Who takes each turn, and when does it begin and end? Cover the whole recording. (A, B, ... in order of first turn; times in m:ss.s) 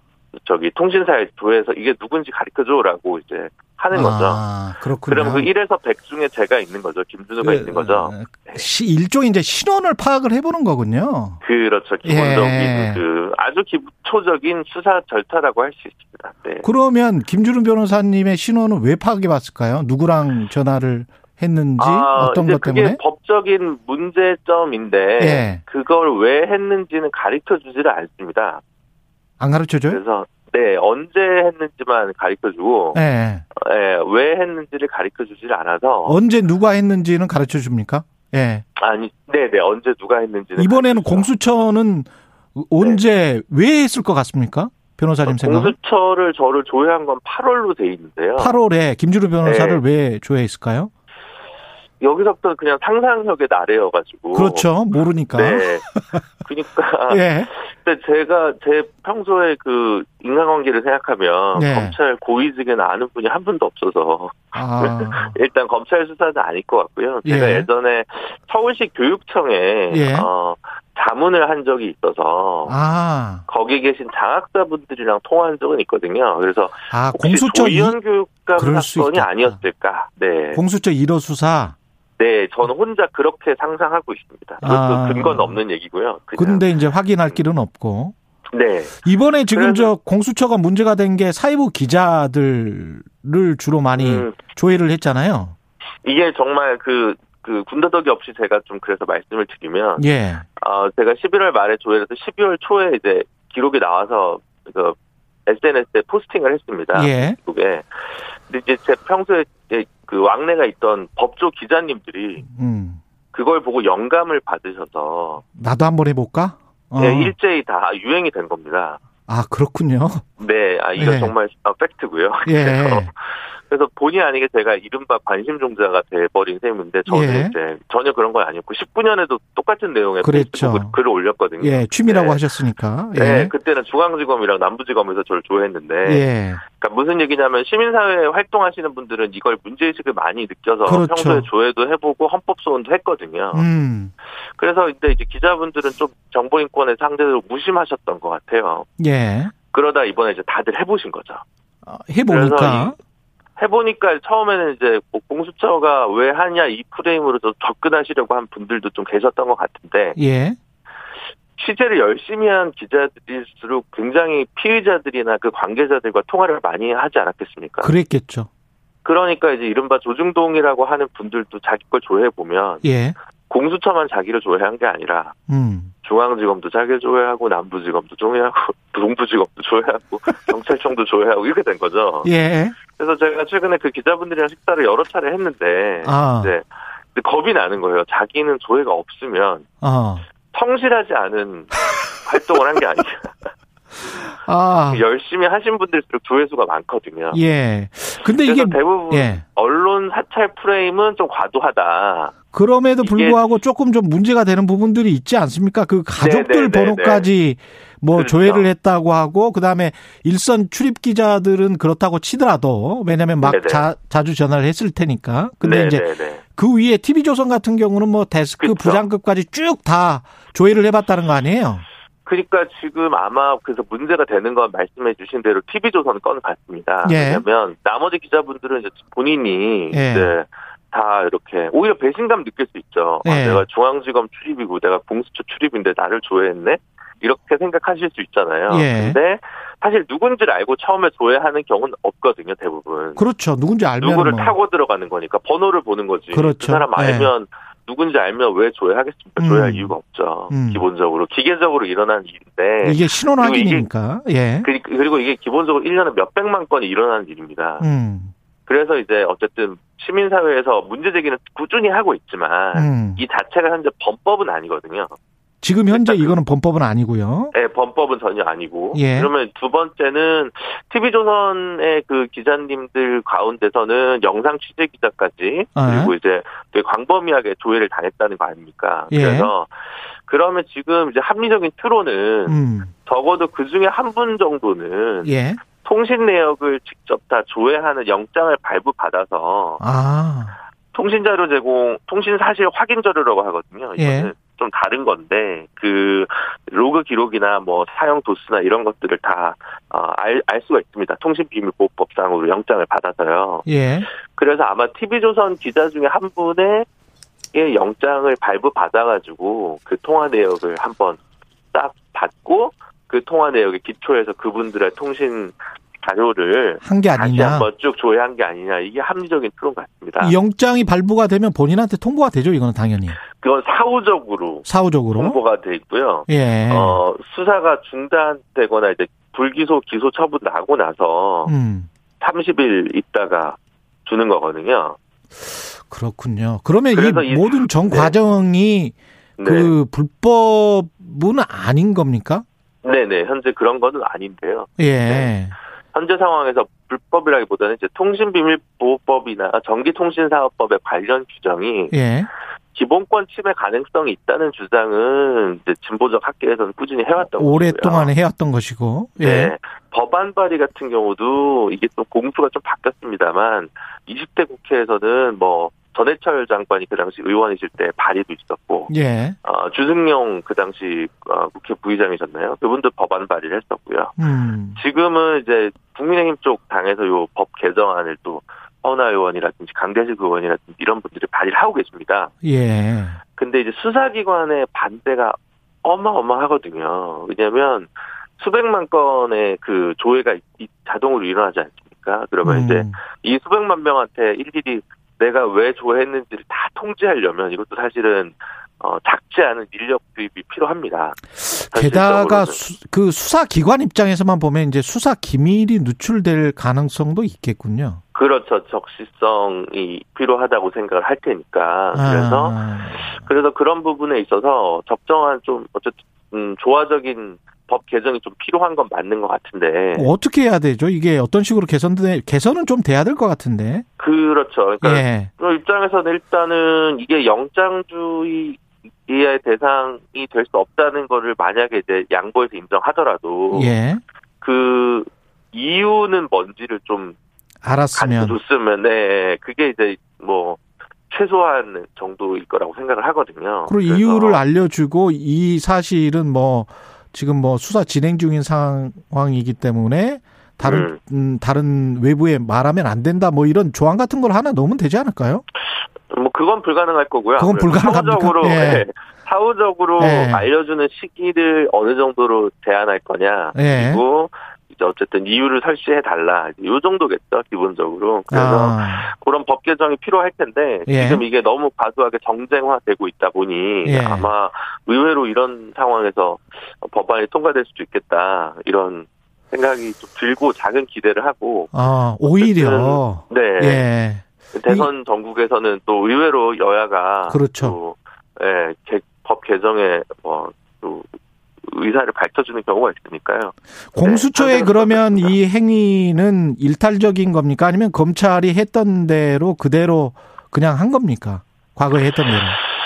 0:00.4-0:04.4 A
0:03.9-0:05.5 B
0:05.0-0:08.6 A
0:07.4-0:11.4 B
0:11.4-0:16.7 A
0:12.0-0:13.0 B
0:16.6-0:23.0 B
0:21.8-0:28.6 A
0:25.2-0:25.6 B
0:29.4-0:30.0 B
0:29.9-0:33.0 A
0:32.9-0:33.4 B
0:33.5-0:36.2 A
0:36.0-0:38.6 B
0:38.8-0:41.3 A
0:40.6-0:45.8 B
0:45.3-0:48.6 A
0:48.4-0:50.9 B
0:49.4-0:49.8 A
0:52.0-0:54.7 A
0:54.3-0:56.2 B
0:55.3-0:55.8 A
0:56.4-1:12.8 A
0:57.1-0:57.5 B
1:01.6-1:02.0 B
1:04.6-1:05.4 B
1:07.2-1:07.7 B
1:09.9-1:10.3 B
1:12.7-1:13.4 B
1:13.5-1:20.6 A
1:16.9-1:18.0 B
1:18.6-1:19.6 B
1:20.5-1:21.8 B
1:22.2-1:26.7 A
1:24.6-1:25.6 B
1:26.4-1:28.2 B
1:28.5-1:29.9 A
1:29.0-1:35.6 B
1:33.9-1:34.4 A
1:36.0-1:40.1 A
1:40.0-1:40.4 B
1:40.6-1:52.4 A
1:46.9-1:47.4 B
1:52.5-1:53.0 B
1:53.3-1:55.4 A
1:55.6-1:57.3 B
1:57.0-1:59.0 A
1:59.3-2:00.2 B
2:00.4-2:12.4 A
2:01.0-2:01.3 B
2:02.4-2:03.1 B
2:07.1-2:07.6 B
2:10.2-2:11.0 B
2:11.6-2:13.5 B
2:13.1-2:23.7 A
2:16.0-2:16.6 B
2:20.9-2:21.5 B
2:23.5-2:24.1 B
2:24.6-2:28.9 A
2:29.0-2:29.5 B
2:29.7-2:31.4 A
2:31.8-2:33.0 B
2:32.3-2:33.0 A
2:33.6-2:40.2 A
2:40.2-2:40.6 B
2:41.6-2:47.9 A
2:47.8-2:48.5 B
2:49.0-2:52.8 A
2:52.8-2:53.2 B
2:53.5-2:55.4 A
2:55.5-2:55.9 B
2:56.0-3:02.3 A
3:02.2-3:02.8 B
3:02.9-3:09.7 A
3:06.0-3:06.5 B
3:09.8-3:10.2 B
3:10.5-3:13.5 A
3:14.4-3:15.0 B
3:14.9-3:17.4 A
3:17.3-3:19.4 B
3:18.2-3:22.4 A
3:22.5-3:41.8 B
3:23.0-3:23.4 A
3:26.2-3:27.3 A
3:28.1-3:28.7 A
3:33.4-3:33.9 A
3:35.6-3:36.4 A
3:38.6-3:39.1 A
3:42.3-4:03.2 A
3:47.0-3:47.4 B
3:49.9-3:50.4 B
3:53.2-3:53.6 B
3:58.7-3:59.2 B
4:03.2-4:04.6 B
4:04.0-4:13.9 A
4:06.3-4:07.3 B
4:09.4-4:10.0 B
4:10.5-4:10.8 B
4:12.8-4:14.7 B
4:14.6-4:17.9 A
4:17.8-4:18.3 B
4:18.7-4:25.1 A
4:22.7-4:23.2 B
4:25.6-4:27.5 B
4:25.9-4:26.4 A
4:27.5-4:49.8 A
4:28.9-4:29.3 B
4:35.8-4:36.1 B
4:39.1-4:39.5 B
4:42.5-4:42.9 B
4:45.2-4:45.6 B
4:49.8-4:50.6 B
4:50.9-5:06.9 A
4:54.0-4:54.3 B
5:03.7-5:04.1 B
5:07.5-5:11.2 A
5:11.7-5:20.4 A
5:16.8-5:17.7 B
5:20.2-5:23.2 B
5:23.2-5:31.5 A
5:24.7-5:25.4 B
5:26.3-5:27.0 B
5:31.5-5:31.9 B
5:32.2-5:35.0 A
5:35.9-5:42.4 B
5:36.9-5:38.2 A
5:39.4-5:39.7 A
5:42.8-5:45.4 A
5:44.8-5:45.6 B
5:45.9-5:52.0 A
5:51.9-5:52.3 B
5:52.7-5:58.1 A
5:57.2-5:59.5 B
5:59.2-6:08.9 A
6:08.9-6:09.4 B
6:09.4-6:14.2 A
6:14.2-6:14.8 B
6:14.7-6:22.3 A
6:22.4-6:23.2 B
6:23.4-6:42.6 A
6:32.4-6:33.0 B
6:41.4-6:48.0 B
6:48.1-7:00.1 A
6:51.9-6:53.2 B
6:59.9-7:03.8 B
7:04.0-7:13.8 A
7:04.8-7:05.3 B
7:13.5-7:14.0 B
7:14.4-7:17.2 A
7:17.6-7:18.4 B
7:17.9-7:24.4 A
7:23.7-7:35.4 B
7:30.6-7:31.0 A
7:36.1-8:01.8 A
7:37.4-7:38.9 B
7:40.0-7:40.5 B
7:43.6-7:44.0 B
7:48.3-7:49.1 B
7:50.9-7:51.2 B
7:53.8-7:54.3 B
8:01.7-8:04.9 B
8:02.3-8:03.9 A
8:04.5-8:11.1 A
8:07.3-8:07.8 B
8:11.6-8:15.4 A
8:13.9-8:22.6 B